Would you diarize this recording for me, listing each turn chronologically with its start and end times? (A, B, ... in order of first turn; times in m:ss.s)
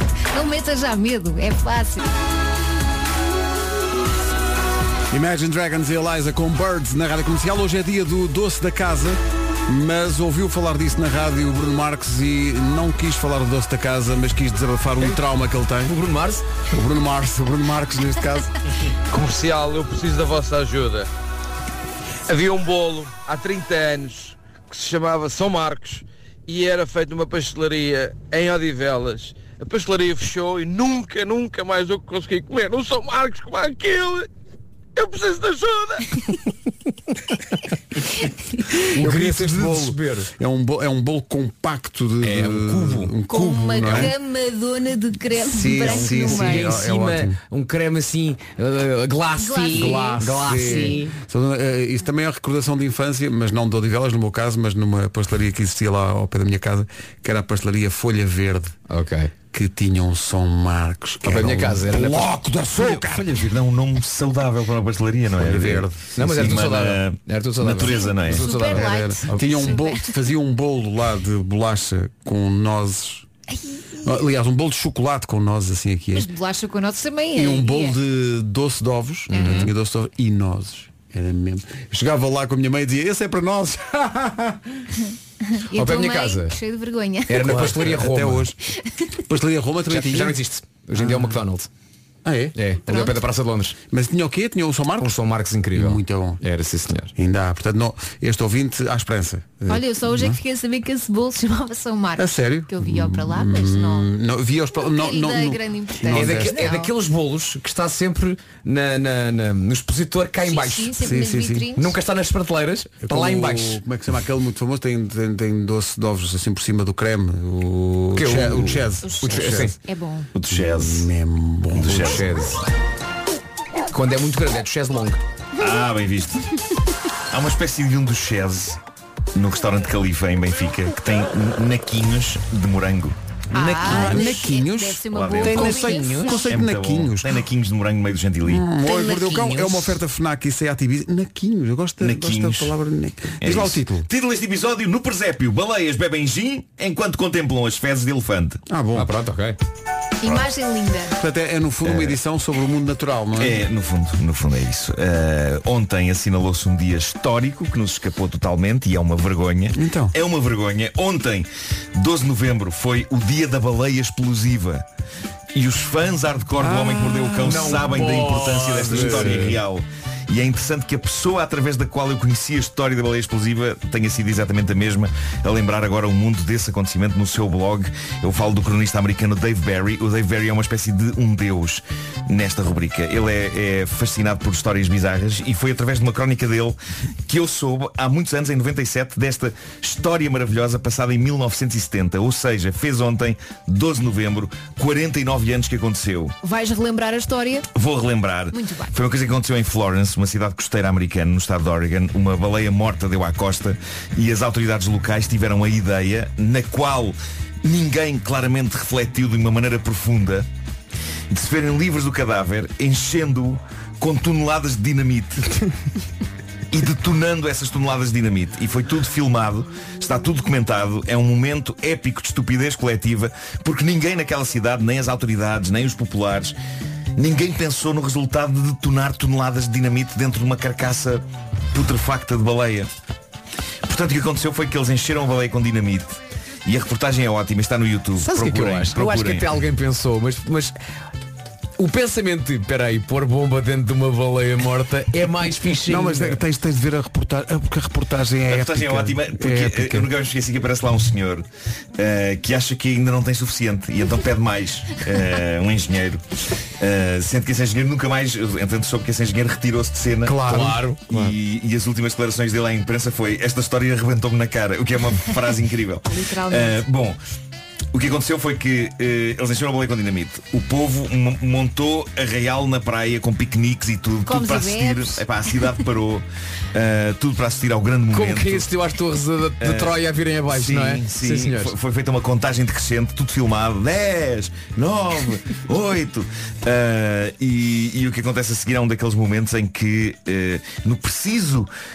0:00.3-0:02.1 A
0:05.1-0:15.9 B
0:15.8-0:16.4 C
0:16.7-0:18.5 B
0:19.1-0:21.1 D
0:22.3-0:34.3 D
0:35.0-0:36.0 D
0:38.9-0:44.1 B
0:38.9-0:40.3 C
0:42.2-0:43.1 C
0:43.3-0:46.7 A
0:43.8-0:44.1 C
0:45.4-0:47.4 B
0:45.8-0:51.1 C
0:49.4-0:50.8 A
0:49.7-0:58.7 B
0:58.9-0:59.3 C
0:59.5-1:03.3 B
1:01.2-1:02.3 C
1:02.7-1:08.5 E
1:05.4-1:06.1 B
1:06.1-1:09.6 C
1:07.8-1:10.1 A
1:08.4-1:13.3 B
1:14.0-1:16.3 B
1:16.1-1:18.0 A
1:17.4-1:24.6 B
1:19.3-1:19.7 A
1:19.3-1:19.7 C
1:25.5-1:27.7 A
1:25.7-1:26.5 C
1:27.3-1:28.5 C
1:27.4-1:28.6 B
1:29.3-1:30.4 B
1:29.9-1:31.7 C
1:31.0-1:31.4 B
1:32.2-1:32.5 B
1:32.5-1:33.8 C
1:32.9-1:33.1 A
1:33.9-1:35.1 B
1:35.0-1:37.1 C
1:35.7-1:36.4 B
1:37.2-1:40.4 B
1:39.7-1:44.1 A
1:42.2-1:46.7 B
1:44.7-1:46.9 A
1:46.1-1:50.9 C
1:50.4-1:52.0 A
1:51.0-1:51.7 B
1:51.8-1:53.8 C
1:53.0-1:59.7 B
1:58.1-1:59.7 C
1:59.0-2:00.3 A
2:00.3-2:01.1 E
2:00.5-2:02.3 B
2:01.8-2:02.2 E
2:01.8-2:02.6 C
2:03.9-2:05.2 C
2:05.6-2:06.4 E
2:07.3-2:08.8 E
2:09.3-2:13.2 E
2:13.5-2:16.6 A
2:13.5-2:17.3 B
2:15.1-2:15.9 E
2:15.5-2:16.4 C
2:16.5-2:18.6 E
2:18.4-2:24.1 B
2:18.8-2:19.6 A
2:22.0-2:22.7 E
2:23.4-2:28.6 E
2:28.7-2:29.1 B
2:28.9-2:29.6 C
2:30.2-2:31.2 A
2:31.2-2:33.6 B
2:31.8-2:32.2 E
2:33.4-2:44.8 E
2:39.7-2:40.1 B
2:45.5-3:16.4 E
2:46.6-2:47.8 B
2:47.2-2:49.6 C
2:48.6-2:49.6 B
3:16.4-3:17.7 A
3:17.7-3:30.5 E
3:18.5-3:18.9 A
3:31.3-3:35.5 E
3:36.7-3:46.5 E
3:47.2-3:52.9 E
3:53.8-3:59.5 E
3:58.2-4:00.7 C
4:01.8-4:06.4 C
4:05.9-4:10.1 B
4:08.5-4:16.2 E
4:16.8-4:27.2 E
4:20.2-4:21.3 B
4:20.4-4:21.2 C
4:26.1-4:26.8 A
4:27.9-4:38.7 E
4:34.2-4:35.2 A
4:38.1-4:41.7 C
4:39.6-4:51.7 E